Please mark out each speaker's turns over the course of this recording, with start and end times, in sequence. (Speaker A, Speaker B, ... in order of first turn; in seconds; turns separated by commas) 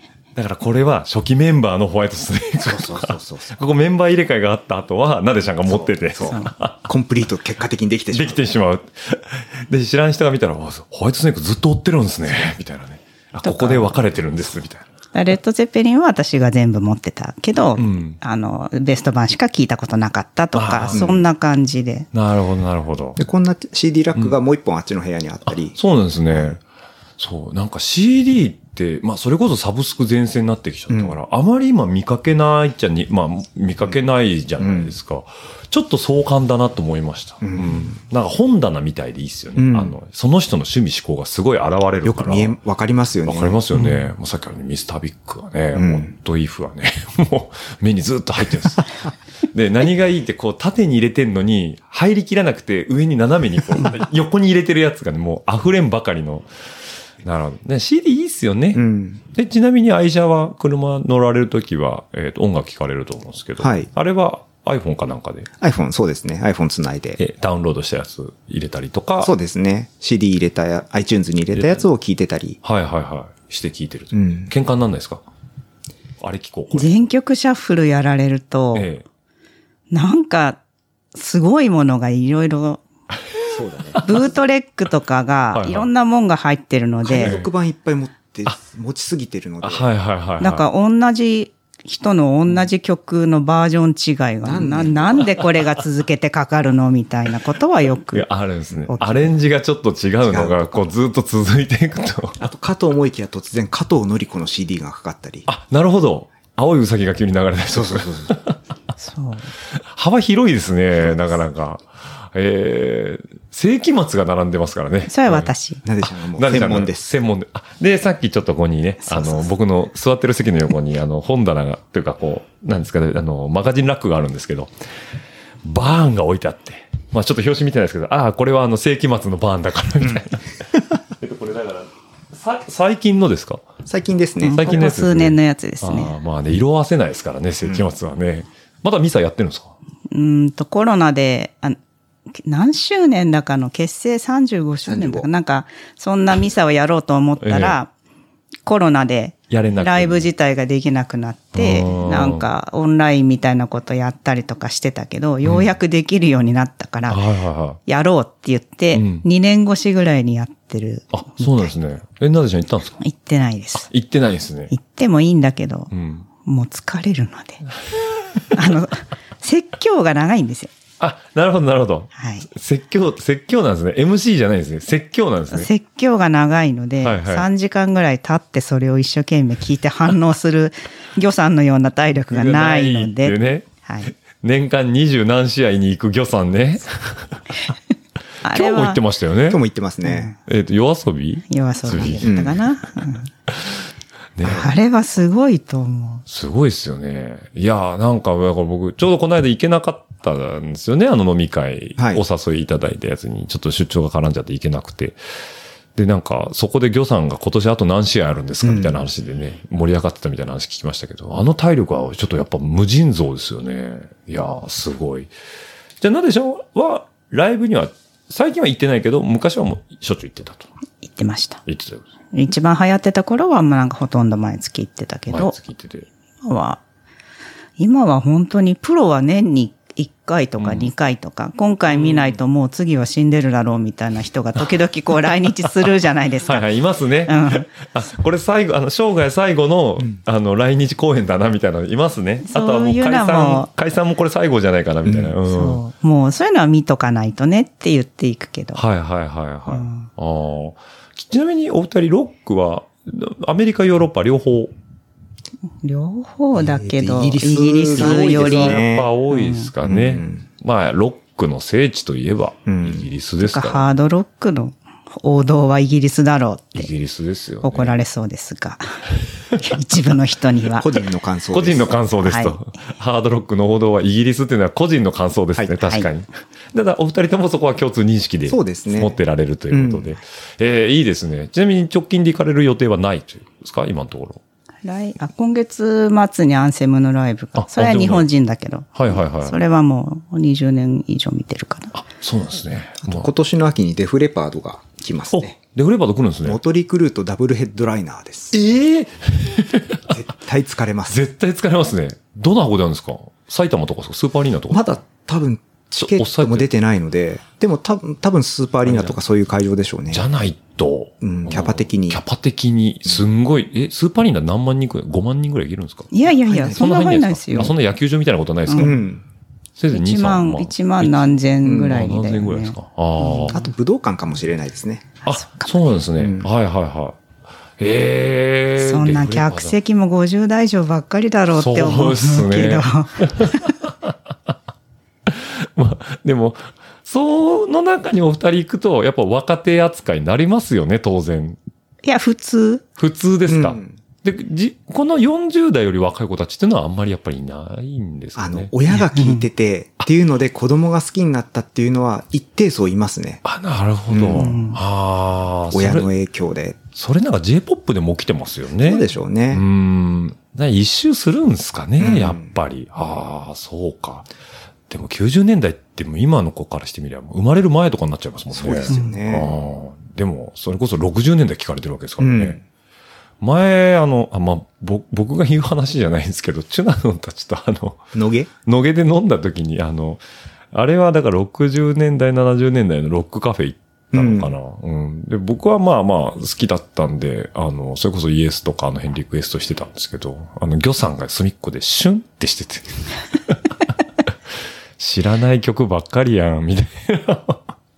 Speaker A: 0.4-6.9, Speaker B: 2.6-3.6, Speaker B: 5.7-8.4, Speaker C: 6.2-6.5, Speaker A: 8.1-14.8, Speaker C: 13.4-14.0, Speaker C: 15.1-22.1, Speaker A: 17.8-18.2, Speaker A: 20.5-21.2, Speaker B: 20.9-21.2, Speaker A: 22.1-23.2, Speaker B: 23.2-25.8, Speaker A: 25.8-26.6, Speaker B: 26.3-26.6, Speaker A: 27.2-42.6, Speaker B: 30.9-31.2, Speaker B: 34.6-34.9, Speaker B: 37.4-38.0, Speaker B: 39.6-40.0, Speaker B: 42.0-43.6, Speaker A: 43.3-56.5, Speaker B: 45.7-46.1, Speaker A: 57.2-65.5, Speaker B: 58.7-59.2, Speaker B: 63.6-63.9, Speaker B: 65.6-67.2, Speaker A: 67.2-69.3, Speaker B: 69.2-72.6, Speaker A: 71.5-71.8, Speaker A: 72.6-75.2, Speaker B: 74.1-74.5, Speaker A: 76.2-77.0, Speaker C: 76.7-78.9, Speaker A: 78.7-79.0, Speaker C: 79.9-80.6, Speaker C: 81.1-82.8, Speaker B: 83.5-84.1, Speaker C: 84.0-87.4, Speaker A: 85.5-85.9, Speaker B: 87.0-89.9, Speaker A: 87.2-87.5, Speaker A: 89.6-90.7, Speaker C: 90.4-98.3, Speaker B: 94.4-95.3, Speaker A: 98.1-102.5, Speaker C: 98.9-99.2, Speaker B: 100.2-100.9, Speaker B: 102.4-105.5, Speaker A: 105.5-108.6, Speaker B: 107.7-108.4, Speaker C: 109.0-109.5, Speaker A: 109.8-115.5, Speaker B: 111.0-111.4, Speaker C: 115.1-115.8, Speaker B: 115.8-117.1, Speaker A: 116.3-124.7, Speaker C: 119.0-119.5, Speaker A: 125.6-130.6, Speaker A: 131.2-133.7, Speaker B: 133.9-134.8, Speaker C: 134.4-136.2, Speaker A: 134.5-139.8, Speaker C: 140.1-141.8, Speaker C: 142.3-147.9, Speaker B: 144.9-145.3, Speaker A: 147.4-147.8, Speaker C: 148.7-157.2, Speaker A: 149.5-150.3, Speaker A: 151.6-152.4, Speaker A: 157.1-157.8, Speaker C: 157.9-161.7, Speaker A: 158.9-159.2, Speaker A: 161.1-163.0, Speaker C: 163.0-163.9, Speaker A: 163.9-164.7, Speaker C: 164.7-165.9, Speaker A: 165.9-166.3, Speaker C: 166.4-167.6, Speaker C: 168.5-170.7, Speaker A: 171.0-175.7, Speaker C: 172.2-172.5, Speaker C: 175.5-184.1, Speaker A: 177.0-177.5, Speaker A: 182.3-183.7, Speaker A: 184.3-187.3, Speaker C: 188.4-189.0, Speaker A: 188.5-189.6, Speaker B: 189.5-190.3, Speaker C: 190.0-190.3, Speaker A: 190.5-192.5, Speaker C: 191.5-193.3, Speaker B: 192.2-192.6, Speaker A: 194.4-194.7, Speaker C: 194.4-196.2, Speaker A: 196.3-205.2, Speaker B: 202.0-202.2, Speaker A: 206.0-215.3, Speaker B: 208.6-209.1, Speaker A: 216.0-220.7, Speaker C: 221.0-221.6, Speaker A: 221.7-222.1, Speaker C: 222.3-225.6, Speaker A: 225.3-226.1, Speaker C: 226.4-226.8, Speaker C: 227.8-236.6, Speaker A: 230.6-230.9, Speaker A: 231.9-232.4, Speaker A: 235.3-235.7, Speaker A: 236.4-245.8, Speaker C: 237.3-237.7, Speaker C: 242.4-243.7, Speaker B: 245.1-245.3, Speaker C: 245.4-248.8, Speaker A: 248.8-254.7, Speaker C: 249.7-250.1, Speaker C: 255.8-259.7, Speaker B: 256.6-259.1, Speaker A: 257.9-263.9, Speaker B: 259.8-260.4, Speaker B: 262.7-263.1, Speaker C: 263.4-266.9, Speaker A: 266.8-268.0, Speaker C: 267.6-269.0, Speaker C: 269.6-270.9, Speaker B: 270.8-271.9, Speaker A: 271.5-284.4, Speaker C: 272.2-272.6, Speaker C: 275.8-276.1, Speaker B: 278.5-279.2, Speaker B: 279.7-280.2, Speaker C: 284.8-291.9, Speaker A: 287.6-288.3, Speaker A: 288.9-289.6, Speaker A: 291.9-293.3, Speaker B: 293.0-295.6, Speaker A: 295.3-296.6, Speaker B: 296.4-298.6, Speaker A: 298.5-300.1, Speaker B: 300.1-301.2, Speaker A: 301.1-304.9, Speaker B: 304.7-310.3, Speaker A: 306.0-306.7, Speaker A: 308.9-309.2, Speaker A: 310.1-316.1, Speaker B: 311.2-312.2, Speaker C: 316.1-317.7, Speaker B: 316.5-316.8, Speaker A: 316.7-319.0, Speaker B: 318.8-319.2, Speaker A: 319.8-323.6, Speaker C: 319.9-323.6, Speaker B: 321.6-322.0, Speaker B: 323.5-325.2, Speaker A: 325.3-327.2, Speaker C: 325.3-325.8, Speaker B: 326.2-326.5, Speaker A: 327.8-329.8, Speaker C: 328.8-333.7, Speaker A: 331.5-334.1, Speaker A: 335.3-341.6, Speaker C: 342.0-342.8, Speaker A: 343.0-348.7, Speaker B: 343.5-344.0, Speaker B: 348.4-353.4, Speaker C: 348.9-349.4, Speaker A: 353.4-356.1, Speaker B: 354.1-354.5, Speaker C: 354.3-354.8, Speaker B: 355.7-356.8, Speaker A: 356.9-364.3, Speaker B: 358.8-359.6, Speaker B: 362.0-362.5, Speaker A: 364.9-372.6, Speaker B: 368.5-369.6, Speaker C: 368.9-369.2, Speaker B: 372.2-372.6, Speaker A: 373.4-378.0, Speaker B: 378.1-378.5, Speaker A: 378.7-380.2, Speaker A: 380.7-393.6, Speaker B: 384.1-384.5, Speaker A: 395.0-397.6